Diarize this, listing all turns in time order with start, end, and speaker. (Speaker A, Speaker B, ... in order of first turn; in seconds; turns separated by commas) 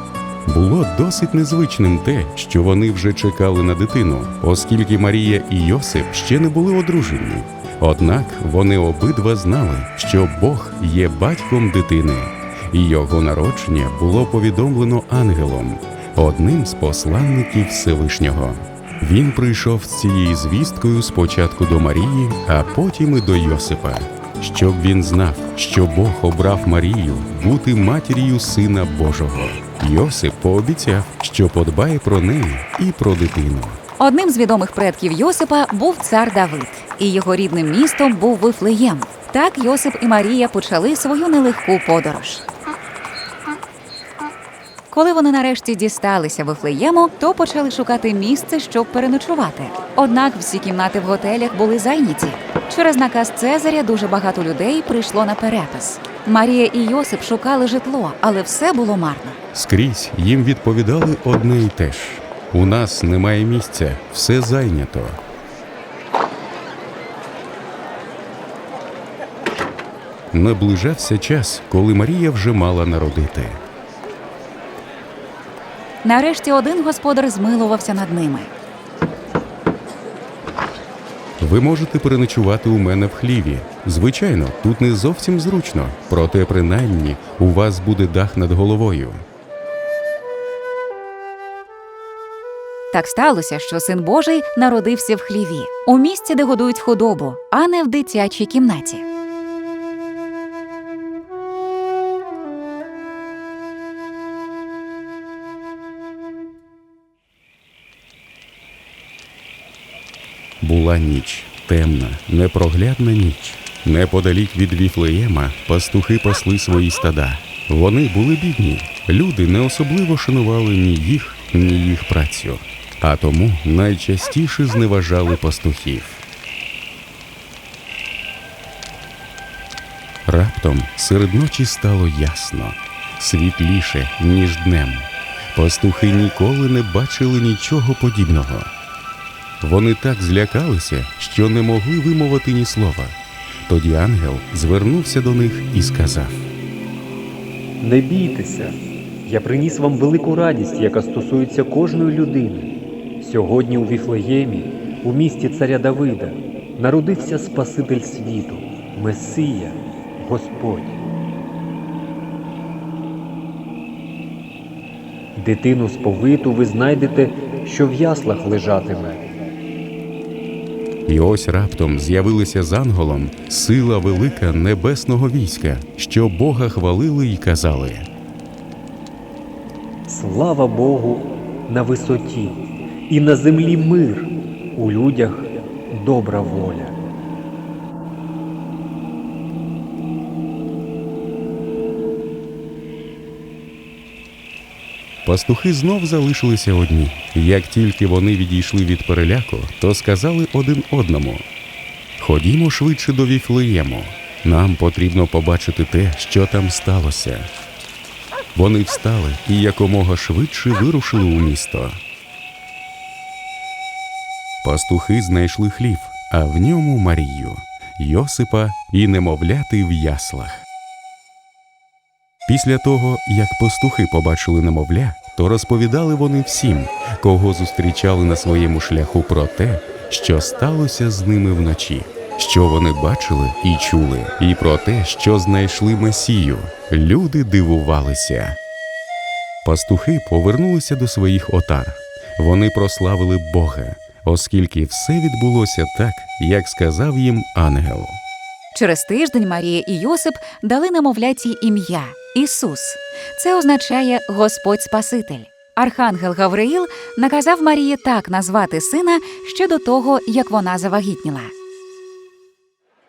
Speaker A: 0.5-33.8, Speaker B: 34.0-42.4, Speaker B: 44.9-59.4, Speaker A: 59.5-65.2, Speaker A: 70.3-73.6, Speaker B: 76.0-78.5, Speaker A: 81.4-89.2, Speaker B: 92.9-99.0, Speaker A: 110.6-126.2, Speaker A: 130.2-138.7, Speaker A: 139.6-146.5, Speaker C: 147.8-161.0, Speaker C: 165.4-169.2, Speaker A: 171.1-178.1, Speaker C: 180.1-186.9, Speaker A: 195.2-201.4, Speaker A: 202.2-207.5, Speaker A: 208.5-212.0, Speaker A: 214.6-220.6, Speaker A: 222.5-238.6, Speaker A: 239.6-248.2, Speaker B: 248.7-261.5